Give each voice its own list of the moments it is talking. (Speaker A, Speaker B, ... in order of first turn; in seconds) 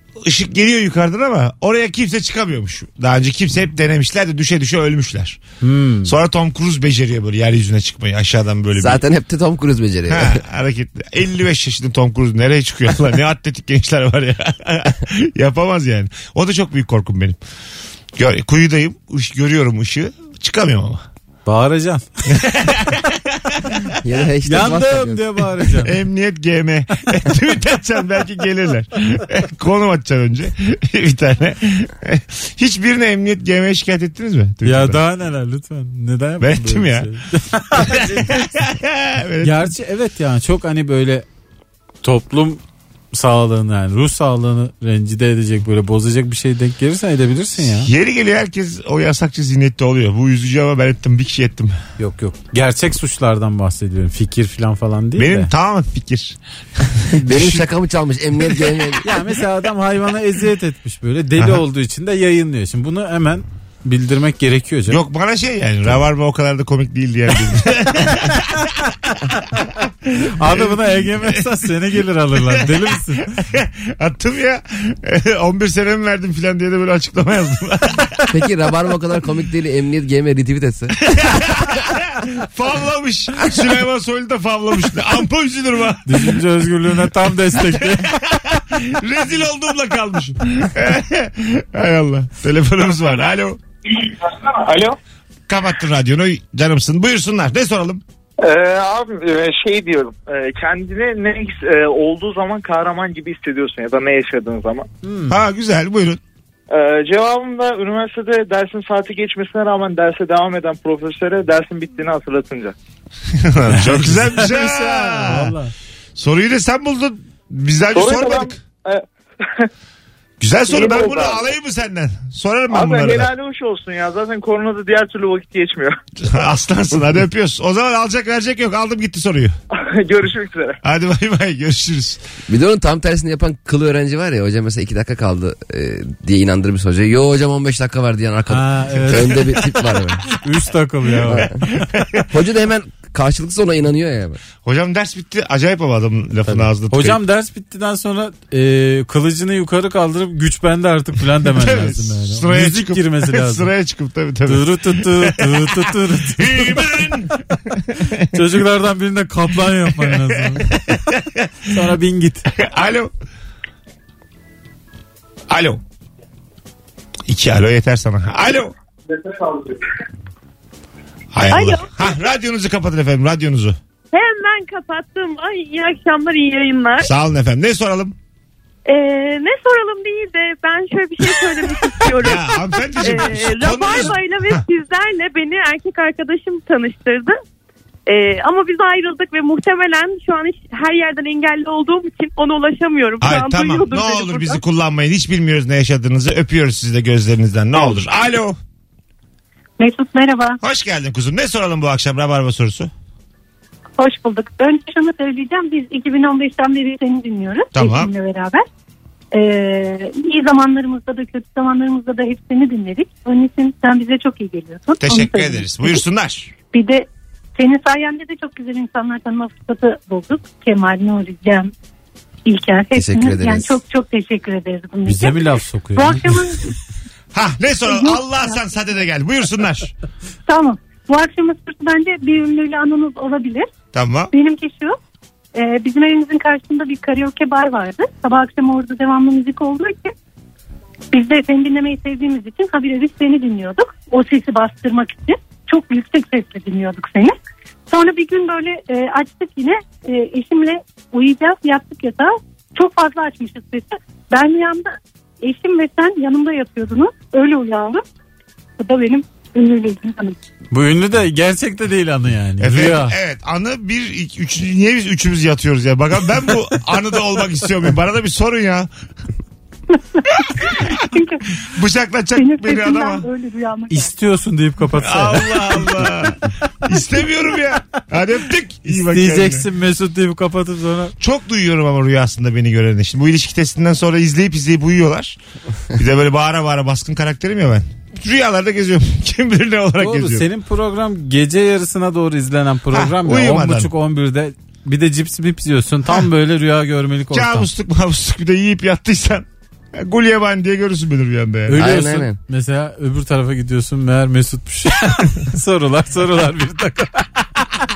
Speaker A: 0.2-5.4, 6.0-9.0, 10.1-17.4, 18.2-21.0, 22.3-23.7, 25.8-35.0, 36.4-37.1, 37.8-39.6, 47.8-51.8, 55.2-56.4, 57.2-57.6, 64.9-68.5, 69.6-71.4, 73.4-78.2, 81.1-86.4, 88.0-93.6, 95.5-98.0, 105.3-106.2, 113.4-115.5, 116.2-118.5, 120.4-123.3, 126.2-129.6, 130.8-132.2, 141.8-142.2, 144.6-147.2, 151.6-158.3, 159.9-161.5, 162.6-163.1, 165.5-165.8, 167.3-168.7, 171.3-173.8, 177.0-178.2, 182.2-184.6, 193.2-198.6, 200.6-202.9, 207.8-208.1, 215.0-216.5, 227.3-229.9, 233.9-234.3, 262.6-268.9, 270.4-270.9, 271.6-273.3, 275.0-279.7, 281.2-285.4, 285.9-290.5, 292.9-293.9, 297.3-301.9
Speaker B: 5.6-6.1, 21.5-22.1, 24.4-26.0, 34.6-38.3, 39.4-41.3, 42.0-47.9, 52.0-55.5, 59.0-65.0, 70.2-73.3, 86.0-88.1, 105.0-105.4, 113.7-115.7, 138.5-141.5, 146.4-153.7, 154.4-157.1, 158.3-161.0, 161.7-162.5, 225.1-226.4, 260.7-263.1, 273.9-276.1, 278.9-281.1, 290.0-297.7, 301.7-307.6
Speaker C: 8.7-10.4, 24.0-25.3, 57.2-59.1, 78.3-81.7, 132.5-140.3, 141.3-141.6, 142.3-144.4, 222.9-223.8, 301.8-302.4
Speaker D: 98.4-104.9, 106.7-112.8, 117.9-119.7, 120.7-121.5, 122.7-126.0, 129.7-130.8
Speaker E: 171.5-172.1, 174.1-177.1, 178.9-187.4, 188.1-194.6
Speaker F: 199.8-200.6, 204.0-208.6, 209.3-216.0, 216.7-221.7, 222.5-226.7, 227.9-228.6, 230.5-233.7, 234.3-235.0, 235.6-240.1, 241.1-247.4, 247.9-258.0, 258.8-260.4, 271.1-271.4, 272.4-274.1